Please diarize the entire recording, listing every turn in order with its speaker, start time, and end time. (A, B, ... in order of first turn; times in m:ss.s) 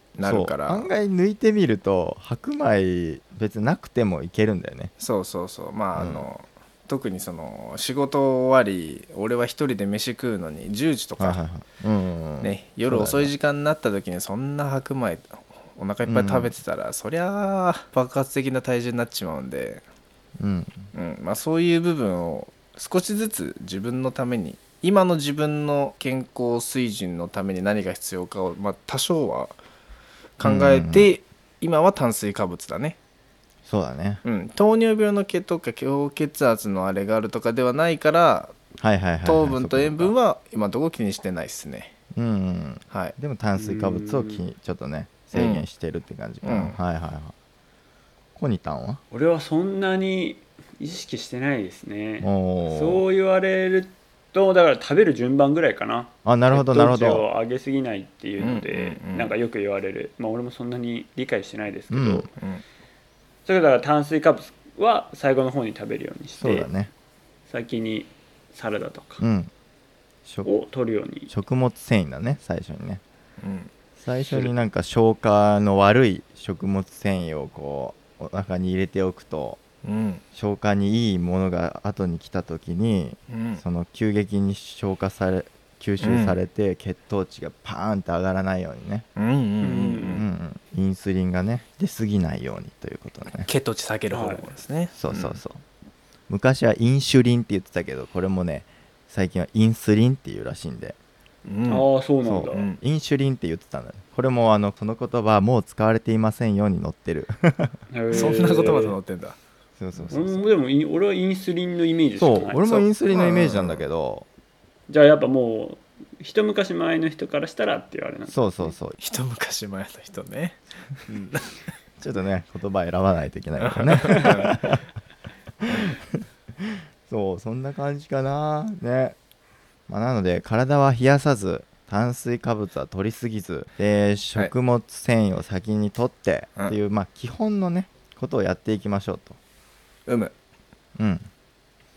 0:00.2-0:00.9 A
0:00.2-0:04.9 B
0:05.0-0:11.4 A
0:06.0-0:06.3 B
0:11.2-0:13.3 B
0:12.4-0:19.8 A
0:16.0-0:16.5 B
0:20.4-0:20.9 B
0:20.9-0:29.5 A
0:30.4-0:33.0 A
0:30.4-0:31.1 B
0:33.6-0:34.2 B
0:34.2-0:38.6 A
0:38.8-0:40.1 B
0:39.2-0:41.9 A
0:42.2-0:47.3 B
0:42.9-0:43.2 A
0:43.6-0:44.4 C
0:45.3-0:45.6 A
0:46.4-0:46.8 A
0:48.4-0:49.0 B
0:49.1-1:02.3 C
0:52.2-0:53.0 B
0:56.2-0:57.2 B
0:58.4-0:59.3 A
1:01.9-1:02.3 B
1:03.5-1:06.7 C
1:06.4-1:06.9 B
1:07.5-1:09.2 C
1:09.2-1:09.5 B
1:10.4-1:11.3 C
1:11.3-1:13.0 B
1:13.4-1:13.7 A
1:14.0-1:19.6 B
1:19.8-1:20.2 A
1:20.3-1:29.0 B
1:23.3-1:23.6 A
1:26.0-1:26.4 A
1:29.2-1:30.2 A
1:29.6-1:30.2 C
1:30.1-1:33.5 B
1:33.4-1:35.4 A
1:34.1-1:34.5 C
1:35.0-1:35.6 B
1:36.3-1:41.0 B
1:41.4-1:41.9 A
1:41.7-1:42.7 C
1:42.3-1:47.8 B
1:42.5-1:42.8 A
1:47.9-1:49.0 C
1:48.1-1:49.4 A
1:49.8-1:50.4 B
1:50.1-1:52.9 C
1:52.2-1:54.3 B
1:53.1-1:53.8 A
1:54.9-1:58.7 C
1:58.3-1:59.0 B
1:59.0-2:01.5 A
2:02.0-2:04.8 B
2:03.6-2:04.5 A
2:05.6-2:09.2 B
2:09.9-2:19.4 B
2:20.1-2:20.3 A
2:21.0-2:21.3 B